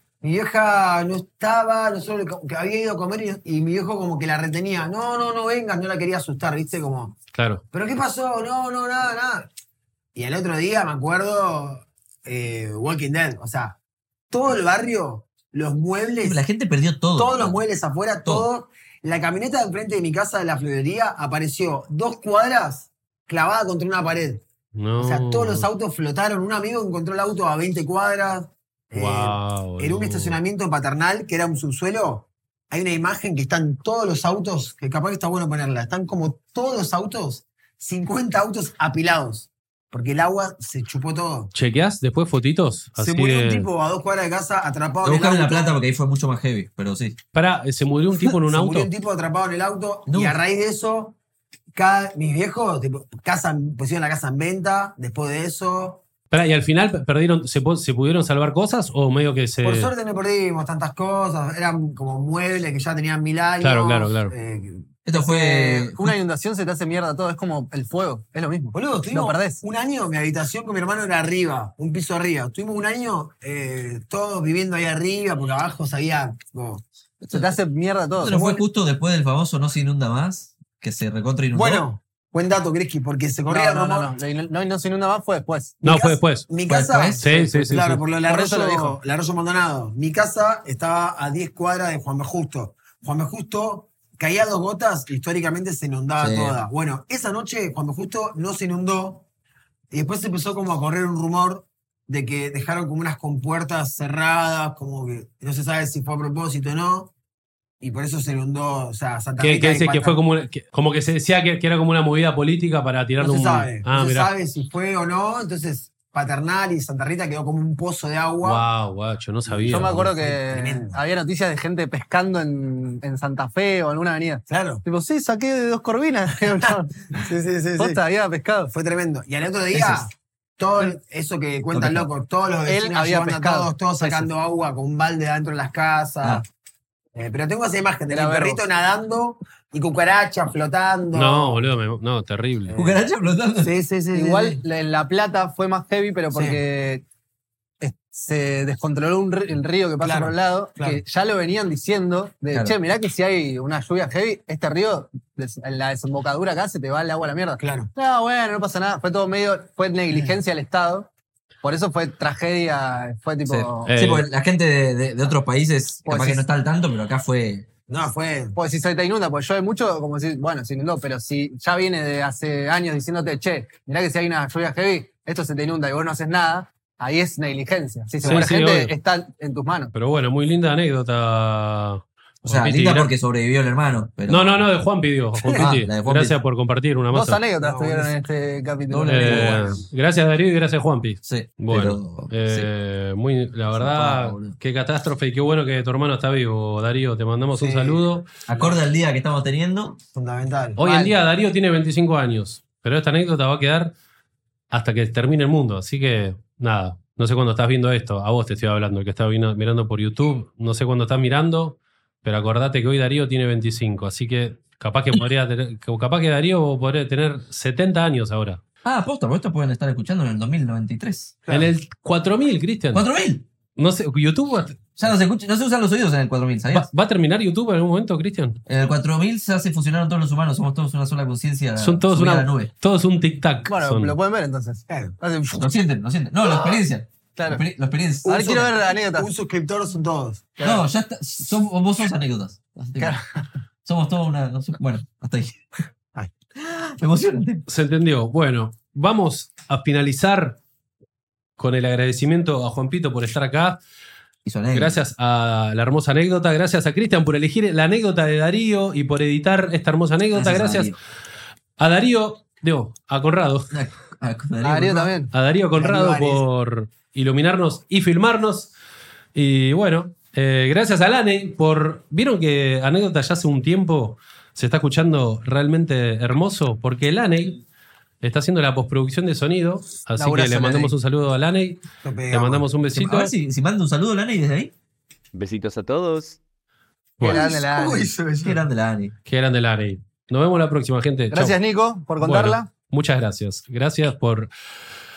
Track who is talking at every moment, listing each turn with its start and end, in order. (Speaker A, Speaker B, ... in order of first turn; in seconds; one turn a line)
Speaker A: 0.2-7.2
Speaker B: 7.3-7.6
Speaker A: 7.7-9.5
Speaker A: 10.2-13.8
Speaker A: 14.3-16.4
Speaker C: 16.2-17.6
Speaker A: 17.1-24.4
Speaker B: 24.8-25.7
Speaker A: 25.0-41.5
Speaker B: 28.9-30.4
Speaker B: 41.5-43.7
Speaker A: 43.0-45.8
Speaker C: 45.0-47.2
Speaker B: 47.3-48.9
Speaker A: 48.1-51.2
Speaker C: 50.1-50.4
Speaker A: 51.7-56.0
Speaker B: 56.3-59.9
Speaker A: 59.6-65.9
Speaker B: 63.6-64.3
Speaker C: 65.0-66.1
Speaker D: 65.9-69.6
Speaker A: 68.7-76.8
Speaker C: 77.2-77.6
Speaker D: 77.3-78.4
Speaker C: 78.2-81.9
Speaker A: 78.2-78.6
Speaker A: 81.5-84.1
Speaker D: 83.5-85.8
Speaker A: 85.8-99.2
Speaker B: 85.8-86.5
Speaker C: 86.7-87.2
Speaker B: 87.2-88.1
Speaker D: 88.2-89.0
Speaker C: 96.2-96.6
Speaker A: 99.9-107.1
Speaker A: 107.8-110.2
Speaker B: 109.4-114.3
Speaker A: 113.2-118.7
Speaker B: 118.4-120.0
Speaker A: 119.5-121.0
Speaker D: 119.7-127.2
Speaker A: 124.5-124.8
Speaker A: 127.2-128.0
Speaker D: 127.8-128.7
Speaker A: 128.7-136.5
Speaker C: 129.8-130.0
Speaker C: 131.7-132.1
Speaker D: 132.7-134.3
Speaker A: 137.1-141.7
Speaker D: 138.1-138.6
Speaker B: 141.1-142.7
Speaker A: 142.7-143.0
Speaker C: 142.8-143.8
Speaker A: 143.6-144.6
Speaker D: 144.1-147.0
Speaker A: 146.3-146.6
Speaker D: 147.8-161.1
Speaker A: 150.0-151.0
Speaker C: 152.5-152.8
Speaker A: 157.6-157.9
Speaker D: 161.6-163.9
Speaker C: 163.5-167.7
Speaker B: 163.9-164.3
Speaker D: 166.1-166.5
Speaker A: 167.9-168.6
Speaker D: 168.6-179.9
Speaker A: 178.2-178.5
Speaker B: 178.2-178.9
Speaker B: 179.9-183.2
Speaker C: 182.4-184.7
Speaker B: 184.3-187.4
Speaker D: 185.4-185.7
Speaker C: 185.6-186.4
Speaker D: 187.1-189.6
Speaker A: 187.6-188.1
Speaker C: 188.9-189.7
Speaker B: 189.1-198.3
Speaker A: 189.2-189.8
Speaker C: 191.2-192.7
Speaker C: 193.7-194.6
Speaker A: 197.5-198.7
Speaker C: 198.5-200.0
Speaker A: 200.2-201.2
Speaker B: 200.8-203.9
Speaker B: 204.7-218.6
Speaker C: 218.8-221.4
Speaker A: 221.5-221.7
Speaker B: 221.5-223.1
Speaker C: 222.9-223.4
Speaker B: 223.8-224.8
Speaker C: 225.0-226.9
Speaker B: 226.7-228.6
Speaker C: 228.7-232.7
Speaker B: 231.8-234.2
Speaker D: 233.7-235.7
Speaker A: 234.9-235.2
Speaker C: 235.5-238.4
Speaker D: 237.4-237.7
Speaker D: 238.3-239.3
Speaker A: 238.3-240.5
Speaker D: 240.6-240.8
Speaker C: 240.6-243.2
Speaker D: 243.0-243.4
Speaker C: 243.8-245.8
Speaker C: 246.6-247.6
Speaker B: 247.7-250.6
Speaker B: 251.6-253.8
Speaker C: 254.4-255.0
Speaker B: 254.7-260.9
Speaker C: 260.3-261.0
Speaker B: 261.8-263.7
Speaker C: 263.7-265.2
Speaker D: 264.6-265.3
Speaker B: 265.3-268.7
Speaker A: 265.8-266.4
Speaker B: 269.4-277.6
Speaker B: 278.2-283.3
Speaker D: 280.2-281.0
Speaker A: 282.0-282.7
Speaker C: 282.9-284.7
Speaker C: 285.7-286.2
Speaker D: 287.2-288.1
Speaker A: 287.2-288.6
Speaker C: 288.4-289.1
Speaker B: 289.3-291.6
Speaker D: 291.3-292.7
Speaker B: 292.2-294.5